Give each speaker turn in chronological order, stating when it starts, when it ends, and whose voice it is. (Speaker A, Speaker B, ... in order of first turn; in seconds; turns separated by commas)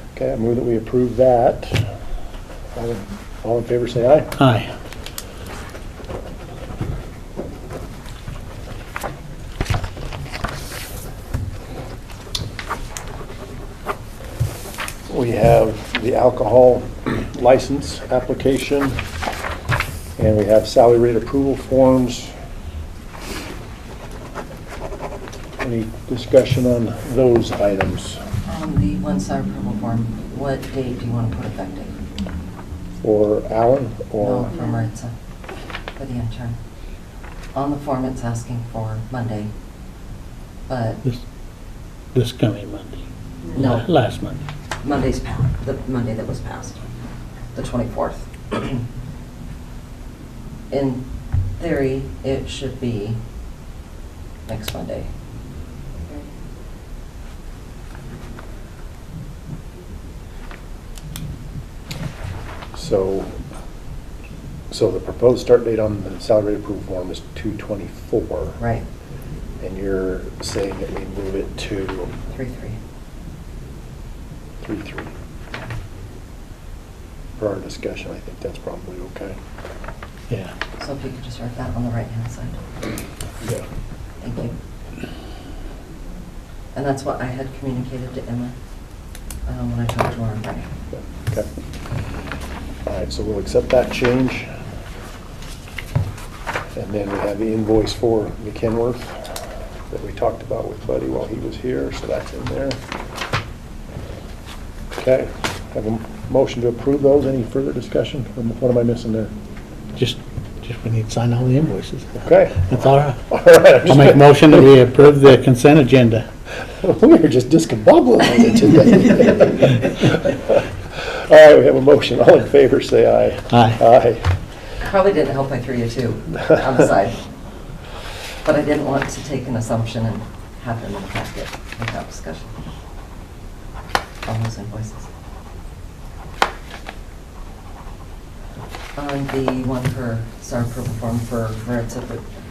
Speaker A: 0.1-1.9, Speaker A: 2.8-4.3, Speaker B: 4.4-4.7, Speaker A: 15.1-19.0, Speaker A: 20.2-22.3, Speaker A: 25.6-28.2, Speaker C: 28.5-32.0, Speaker A: 33.0-34.5, Speaker C: 34.2-35.1, Speaker C: 36.0-36.5, Speaker C: 37.5-39.5, Speaker C: 40.7-41.0, Speaker B: 42.1-43.0, Speaker C: 43.5-43.9, Speaker B: 43.5-44.4, Speaker C: 44.8-46.8, Speaker C: 47.5-48.8, Speaker C: 50.7-51.0, Speaker C: 51.6-53.2, Speaker C: 54.5-55.1, Speaker A: 62.7-63.4, Speaker A: 64.7-68.6, Speaker C: 68.6-68.8, Speaker A: 69.6-72.1, Speaker C: 72.3-72.8, Speaker A: 74.6-75.1, Speaker A: 77.4-79.4, Speaker C: 80.8-82.6, Speaker C: 84.2-84.5, Speaker C: 86.7-88.5, Speaker C: 89.5-90.7, Speaker A: 90.9-91.5, Speaker A: 92.9-94.5, Speaker A: 96.8-99.3, Speaker A: 99.9-102.8, Speaker A: 104.9-109.3, Speaker B: 110.0-113.2, Speaker A: 112.2-112.6, Speaker A: 113.3-114.6, Speaker B: 113.8-116.2, Speaker A: 116.8-124.3, Speaker B: 123.5-123.8, Speaker C: 124.8-127.2, Speaker C: 128.4-132.5, Speaker C: 134.2-135.1, Speaker C: 138.9-142.2